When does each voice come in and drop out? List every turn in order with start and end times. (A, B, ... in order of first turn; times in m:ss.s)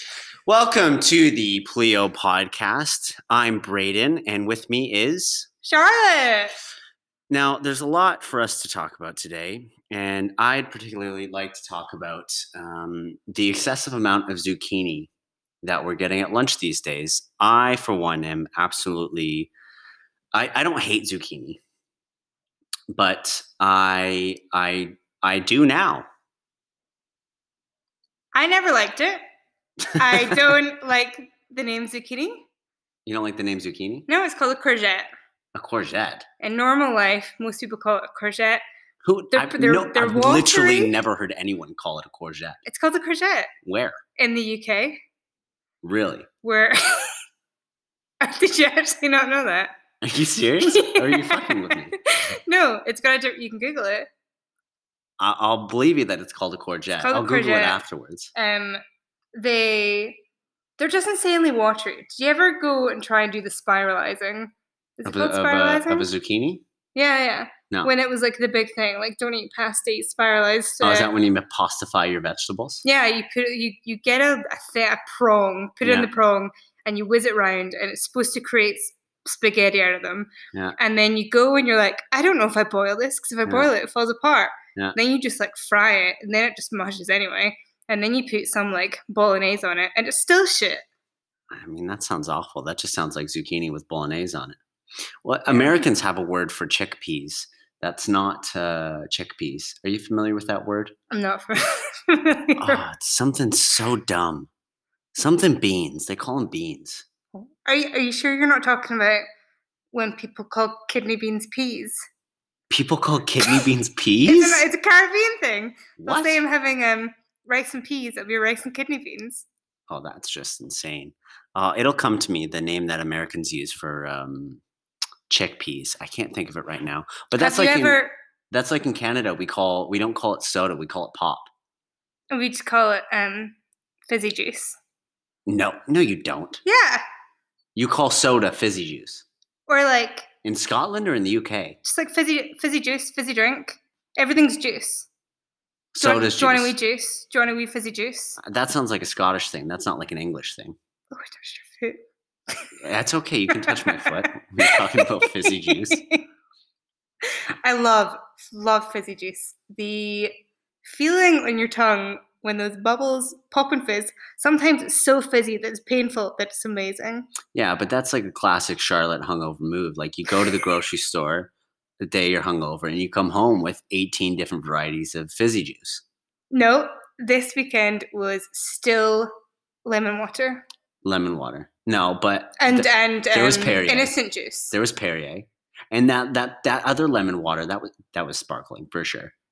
0:00.5-0:05.5 A
0:05.6-0:06.6 B
0:07.3-0:15.1 A
0:15.6-0:19.5 A
0:20.3-0:21.6 A
0:22.9-0:26.1 A
0:28.3-0:29.2 B
0:29.8-0:30.5 A
0:29.9-0:32.5 B
0:33.1-0:34.1 A
0:34.1-0:35.1 B
0:35.6-0:36.3 A
0:36.4-0:38.6 B
0:39.0-0:42.6 A
0:39.3-0:40.9 B
0:42.6-0:43.5 B
0:43.6-0:44.0 A
0:44.2-0:45.0 B
0:45.8-0:46.3 A
0:46.4-0:47.2 B
0:48.2-0:49.8 B
0:50.0-0:52.0 A
0:50.6-0:54.1 B
0:55.2-0:58.3 A
0:57.0-0:57.8 B
0:58.3-0:58.8 B
0:59.3-1:00.2 B
1:00.8-1:06.1 B
1:05.0-1:06.6 A
1:07.0-1:11.1 B
1:10.8-1:12.8 A
1:12.8-1:30.8 B
1:15.8-1:16.1 A
1:31.5-1:34.6 A
1:35.2-1:40.9 A
1:35.5-1:35.8 B
1:41.1-1:42.8 B
1:42.6-1:44.5 A
1:45.2-1:47.1 A
1:47.4-1:49.3 B
1:49.9-1:52.0 B
1:52.7-1:54.6 A
1:54.3-1:59.5 B
1:56.0-1:56.4 A
1:59.9-2:04.6 A
2:05.3-2:11.5 A
2:07.4-2:08.1 B
2:12.3-2:13.6 B
2:14.1-2:14.8 B
2:15.5-2:16.6 A
2:16.6-2:17.0 B
2:17.8-2:19.2 A
2:19.7-2:20.3 B
2:20.4-2:21.8 A
2:21.8-2:25.1 B
2:25.9-2:26.7 A
2:26.0-2:28.4 B
2:28.4-2:30.8 A
2:31.1-2:32.7 B
2:32.8-2:36.0 A
2:33.6-2:36.2 B
2:37.2-2:47.3 B
2:47.5-2:56.0 A
2:56.5-2:59.3 B
2:59.8-3:00.6 B
3:01.0-3:04.2 A
3:02.6-3:04.7 B
3:04.7-3:09.3 A